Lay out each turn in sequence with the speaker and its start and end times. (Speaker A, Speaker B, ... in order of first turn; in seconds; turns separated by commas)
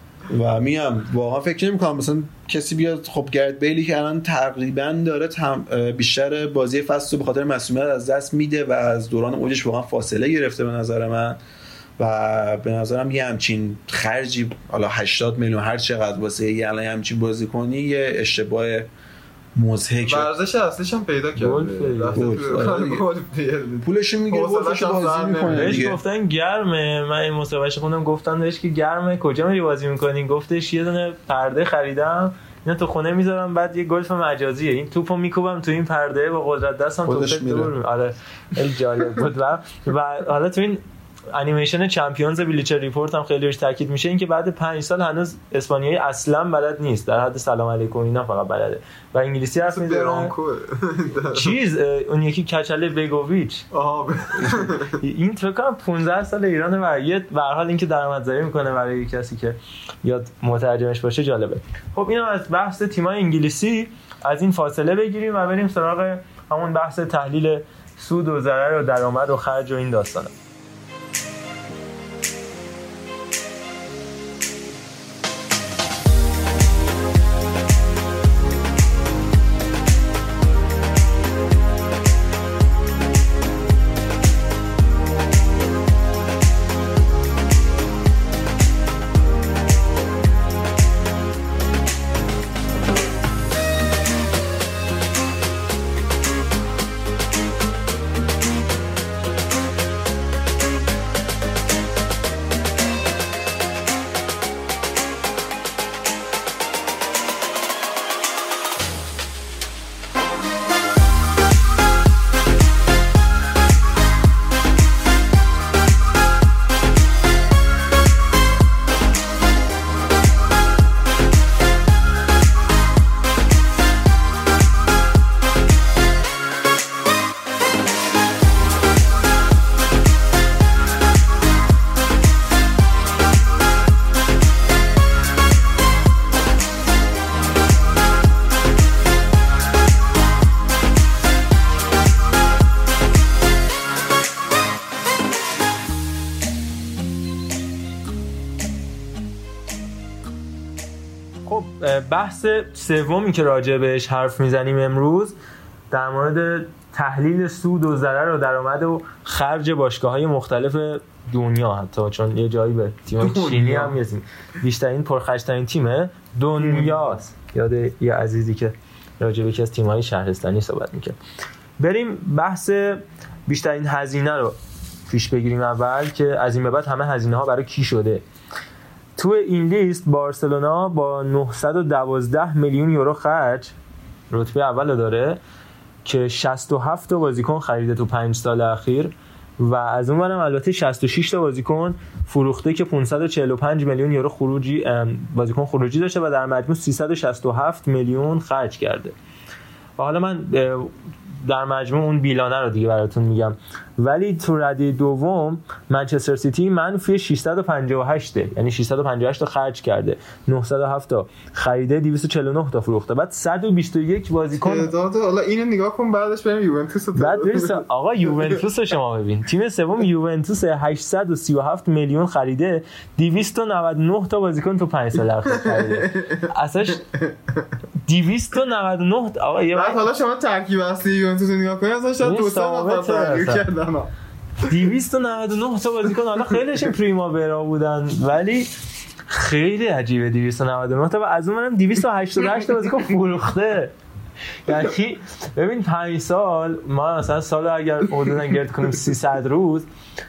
Speaker A: 0.3-11.4, Speaker A: 12.0-18.9, Speaker A: 19.5-20.3, Speaker B: 20.0-25.9, Speaker C: 21.4-22.2, Speaker A: 22.1-23.0, Speaker A: 23.8-26.0, Speaker C: 25.4-40.8, Speaker A: 37.0-37.7, Speaker C: 41.3-50.3, Speaker B: 49.7-51.5, Speaker C: 51.3-53.6, Speaker B: 53.7-55.0, Speaker C: 54.4-70.3, Speaker C: 151.4-155.3, Speaker C: 155.9-171.2, Speaker B: 163.2-163.9, Speaker B: 166.6-167.1, Speaker C: 171.8-174.6, Speaker C: 175.1-178.2, Speaker C: 179.2-183.7, Speaker C: 184.3-185.4, Speaker C: 186.0-199.1, Speaker C: 200.0-200.9, Speaker C: 201.4-214.9, Speaker B: 214.6-217.8, Speaker C: 217.2-227.0, Speaker B: 225.5-226.5, Speaker B: 227.0-227.3, Speaker C: 228.1-230.0, Speaker B: 229.7-234.1, Speaker C: 232.2-233.7, Speaker C: 234.6-238.7, Speaker C: 239.3-243.9, Speaker C: 244.7-249.9